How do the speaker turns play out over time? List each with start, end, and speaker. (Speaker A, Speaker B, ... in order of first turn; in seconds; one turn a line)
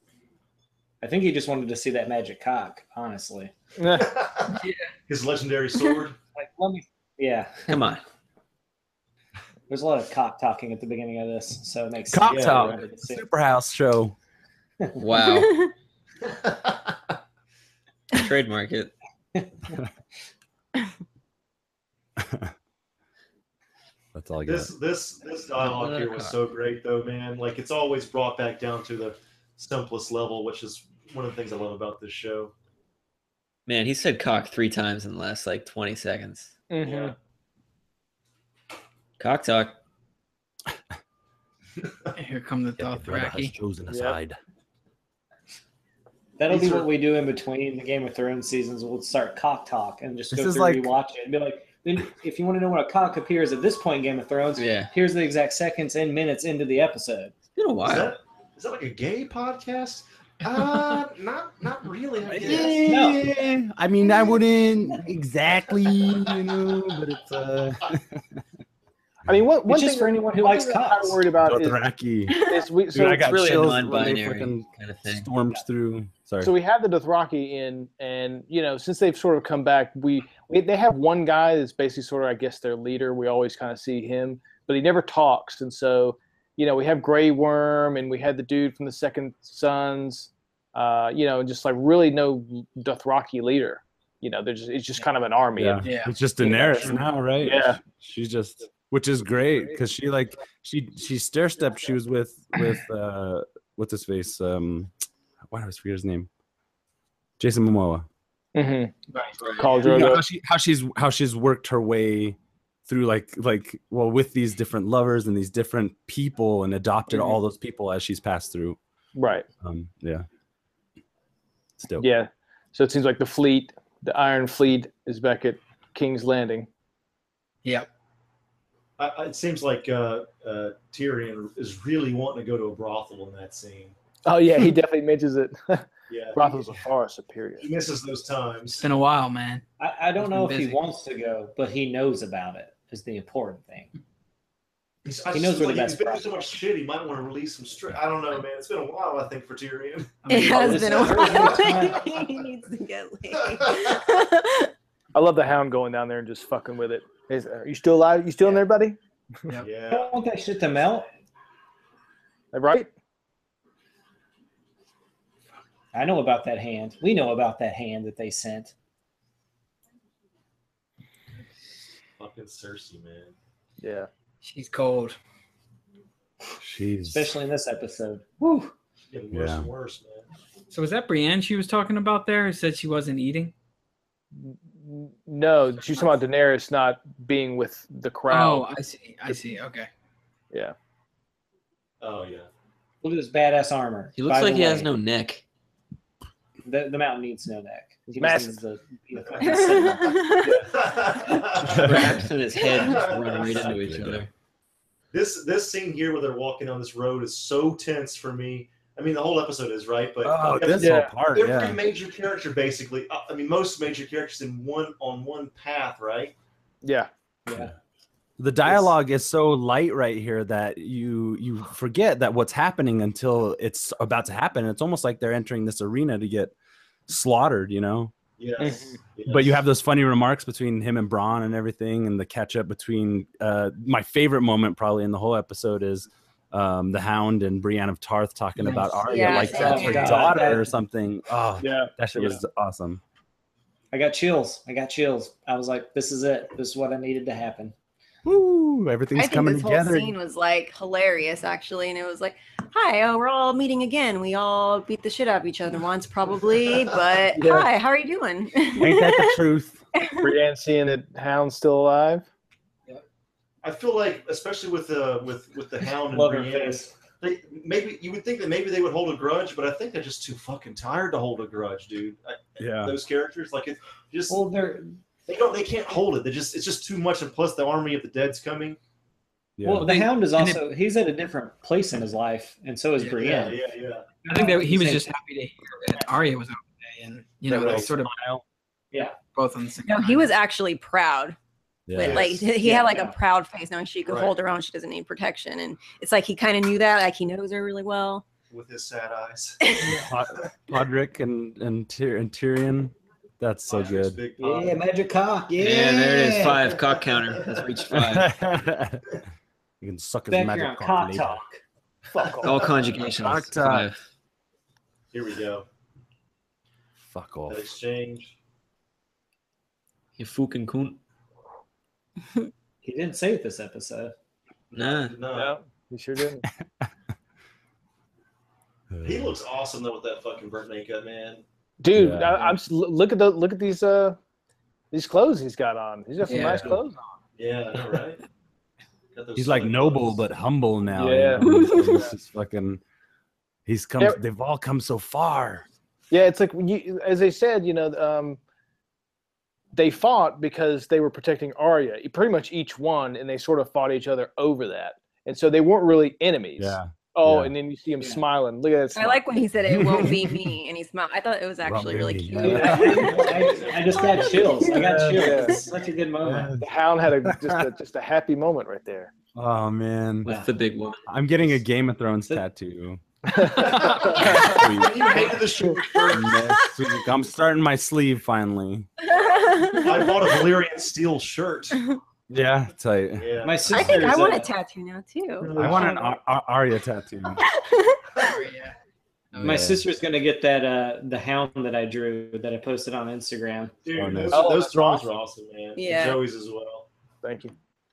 Speaker A: 1.0-3.5
Speaker B: 3.8-4.1
Speaker C: 3.9-6.2
Speaker D: 4.6-4.9
Speaker A: 6.3-7.7
Speaker E: 7.7-8.0
Speaker A: 9.7-13.3
Speaker F: 12.1-14.1
Speaker C: 12.2-12.8
Speaker E: 14.9-15.7
Speaker G: 15.2-15.7
Speaker C: 16.2-17.1
Speaker E: 18.1-18.9
Speaker A: 19.3-19.8
Speaker F: 22.2-22.5
Speaker F: 24.1-24.7
Speaker C: 24.4-32.5
Speaker E: 25.6-26.4
Speaker E: 33.7-36.5
Speaker B: 36.7-37.1
Speaker C: 36.8-37.1
Speaker E: 39.2-39.8
Speaker C: 41.8-42.1
Speaker D: 42.1-43.5
Speaker F: 43.0-44.4
Speaker B: 43.9-44.2
Speaker A: 46.4-57.4
Speaker C: 46.5-46.9
Speaker F: 50.3-50.9
Speaker E: 54.6-54.9
Speaker E: 57.5-58.1
Speaker C: 57.8-63.0
Speaker D: 62.3-62.7
Speaker F: 62.4-68.4
Speaker A: 62.8-63.3
Speaker B: 69.2-71.8
Speaker A: 69.7-71.2
Speaker F: 71.4-72.4
Speaker G: 72.3-72.7
Speaker B: 72.4-73.8
Speaker F: 72.9-76.5
Speaker E: 73.2-75.3
Speaker B: 76.4-95.9
Speaker F: 95.6-104.9
Speaker D: 95.8-96.1
Speaker B: 96.4-97.8
Speaker F: 105.5-106.3
Speaker F: 107.4-108.0
Speaker B: 108.5-109.0
Speaker D: 109.1-109.4
Speaker E: 109.4-109.7
Speaker B: 109.6-110.2
Speaker F: 109.8-118.8
Speaker B: 119.1-119.5
Speaker F: 119.6-120.2
Speaker F: 121.8-122.1
Speaker B: 122.0-126.7
Speaker C: 129.0-133.9
Speaker B: 134.2-137.7
Speaker C: 136.1-136.6
Speaker C: 137.6-138.8
Speaker D: 138.8-139.6
Speaker A: 139.8-143.9
Speaker D: 140.2-140.8
Speaker C: 145.0-151.7
Speaker A: 145.3-146.4
Speaker D: 150.2-151.1
Speaker G: 150.3-154.7
Speaker A: 150.5-152.1
Speaker C: 153.5-153.8
Speaker B: 155.1-159.5
Speaker C: 159.6-160.1
Speaker A: 159.9-161.1
Speaker B: 162.5-162.9
Speaker A: 165.9-168.7
Speaker C: 172.2-173.3
Speaker B: 173.8-174.1
Speaker D: 174.4-175.2
Speaker F: 176.6-177.3
Speaker A: 177.1-178.7
Speaker C: 179.1-180.2
Speaker F: 179.3-179.7
Speaker D: 180.7-183.5
Speaker B: 184.3-188.7
Speaker D: 188.3-189.9
Speaker C: 192.0-192.5
Speaker A: 193.0-194.9
Speaker E: 194.2-195.4
Speaker A: 196.6-200.4
Speaker B: 198.2-198.6
Speaker G: 199.4-200.7
Speaker B: 200.4-200.7
Speaker C: 200.6-203.8
Speaker F: 201.6-202.3
Speaker E: 201.6-204.3
Speaker F: 203.6-204.3
Speaker C: 205.1-216.3
Speaker F: 210.2-211.8
Speaker B: 210.8-211.1
Speaker B: 216.8-217.1
Speaker A: 217.4-217.7
Speaker F: 218.4-226.5
Speaker F: 227.1-228.1
Speaker C: 228.4-229.6
Speaker B: 228.6-229.0
Speaker F: 229.3-243.0
Speaker D: 238.6-239.6
Speaker G: 239.1-240.4
Speaker A: 239.2-240.7
Speaker B: 241.6-242.4
Speaker A: 243.9-247.7
Speaker F: 248.2-250.1
Speaker G: 249.1-259.4
Speaker C: 256.6-256.9
Speaker B: 257.3-257.7
Speaker F: 258.7-259.8
Speaker G: 259.9-260.3
Speaker B: 260.2-262.2
Speaker C: 263.6-274.5
Speaker A: 266.1-266.9
Speaker F: 272.6-273.0
Speaker A: 274.3-275.0
Speaker C: 275.2-278.8
Speaker F: 279.6-279.9
Speaker A: 279.6-283.6
Speaker D: 279.8-280.6
Speaker C: 283.2-284.1
Speaker A: 284.2-285.1
Speaker D: 284.2-288.2
Speaker C: 287.5-287.9
Speaker F: 287.6-288.2
Speaker A: 288.9-289.2
Speaker D: 289.2-290.3
Speaker G: 289.8-291.4
Speaker F: 291.9-292.4
Speaker G: 291.9-298.2
Speaker C: 292.0-292.5
Speaker A: 292.5-293.1
Speaker C: 294.0-294.3
Speaker C: 298.5-300.1
Speaker G: 299.6-300.0
Speaker F: 300.0-304.2
Speaker C: 303.7-304.8
Speaker A: 304.4-306.8
Speaker E: 305.6-308.4
Speaker C: 307.3-307.8
Speaker F: 307.9-309.2
Speaker F: 309.8-311.4
Speaker A: 310.3-311.6
Speaker B: 312.1-312.7
Speaker C: 312.2-313.1
Speaker E: 312.4-314.0
Speaker F: 313.2-313.9
Speaker C: 315.1-315.6
Speaker F: 317.1-317.6
Speaker C: 317.5-318.3
Speaker E: 320.2-321.0
Speaker A: 322.8-324.1
Speaker C: 324.7-325.5
Speaker E: 324.7-325.1
Speaker B: 325.3-326.4
Speaker F: 328.9-329.4
Speaker C: 329.0-331.4
Speaker B: 331.8-334.2
Speaker F: 331.9-332.5
Speaker B: 334.9-337.1
Speaker D: 336.2-336.7
Speaker F: 336.3-336.8
Speaker C: 337.4-338.2
Speaker C: 339.1-340.2
Speaker F: 339.4-342.8
Speaker B: 340.9-342.1
Speaker G: 341.4-342.0
Speaker F: 343.7-345.6
Speaker B: 346.1-348.4
Speaker B: 349.7-359.2
Speaker F: 356.6-357.5
Speaker G: 358.9-364.9
Speaker F: 359.7-360.5
Speaker F: 361.6-363.2
Speaker A: 362.4-366.5
Speaker F: 364.7-365.2
Speaker B: 365.1-365.6
Speaker F: 366.2-366.6
Speaker B: 366.6-369.1
Speaker F: 367.2-367.6
Speaker F: 369.3-370.3
Speaker E: 370.2-371.0
Speaker F: 371.1-373.0
Speaker B: 373.3-374.3
Speaker C: 373.5-376.4
Speaker F: 374.0-375.3
Speaker F: 376.1-378.9
Speaker G: 379.0-380.3
Speaker C: 379.7-381.8
Speaker F: 382.3-383.3
Speaker C: 383.2-384.1
Speaker A: 383.4-384.5
Speaker G: 383.7-385.7
Speaker C: 385.4-386.0
Speaker F: 385.5-387.4
Speaker G: 387.4-388.4
Speaker D: 388.2-388.7
Speaker D: 389.3-389.6
Speaker F: 389.4-389.8
Speaker A: 389.4-393.7
Speaker C: 393.8-396.9
Speaker F: 393.9-394.4
Speaker B: 394.3-395.1
Speaker G: 395.8-396.2
Speaker B: 397.2-397.5